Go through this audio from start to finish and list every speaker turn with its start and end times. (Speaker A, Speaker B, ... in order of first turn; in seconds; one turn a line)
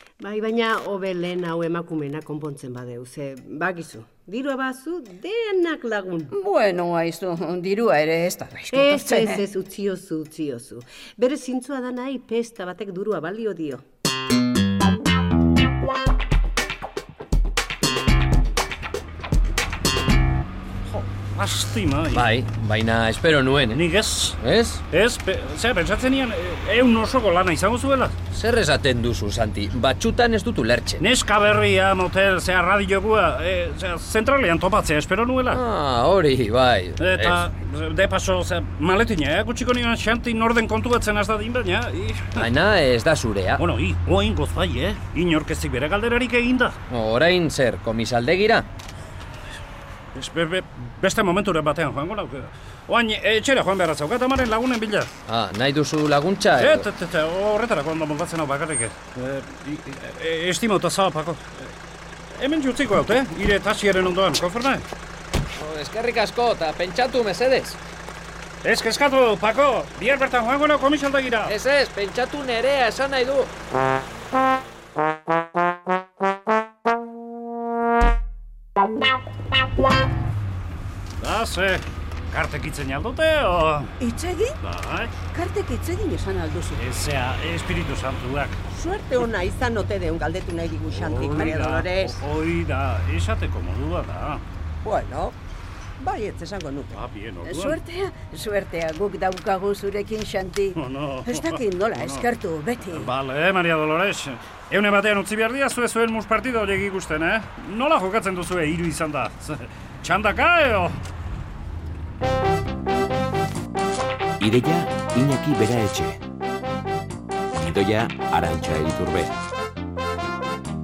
Speaker A: 0.2-6.3
Speaker B: 6.3-9.4
Speaker A: 8.7-13.8
Speaker C: 20.9-22.3
Speaker D: 22.1-23.8
Speaker C: 23.7-24.4
Speaker D: 24.4-24.8
Speaker C: 24.9-28.1
Speaker D: 28.3-31.0
Speaker C: 31.0-35.6
Speaker D: 35.5-37.4
Speaker C: 37.0-42.5
Speaker D: 42.3-43.6
Speaker C: 43.6-46.8
Speaker D: 46.9-48.7
Speaker C: 50.1-55.2
Speaker D: 55.3-56.9
Speaker C: 56.5-61.7
Speaker C: 62.3-64.8
Speaker D: 65.5-67.8
Speaker C: 68.6-71.5
Speaker D: 71.4-73.5
Speaker C: 81.2-83.9
Speaker B: 84.0-84.6
Speaker C: 84.6-85.1
Speaker B: 85.3-86.8
Speaker C: 86.8-88.6
Speaker E: 88.7-92.2
Speaker C: 90.9-94.4
Speaker E: 94.8-95.4
Speaker E: 96.0-97.0
Speaker C: 96.9-97.8
Speaker B: 97.4-103.1
Speaker C: 100.7-102.3
Speaker C: 102.9-111.0
Speaker F: 114.4-116.2
Speaker F: 117.5-119.4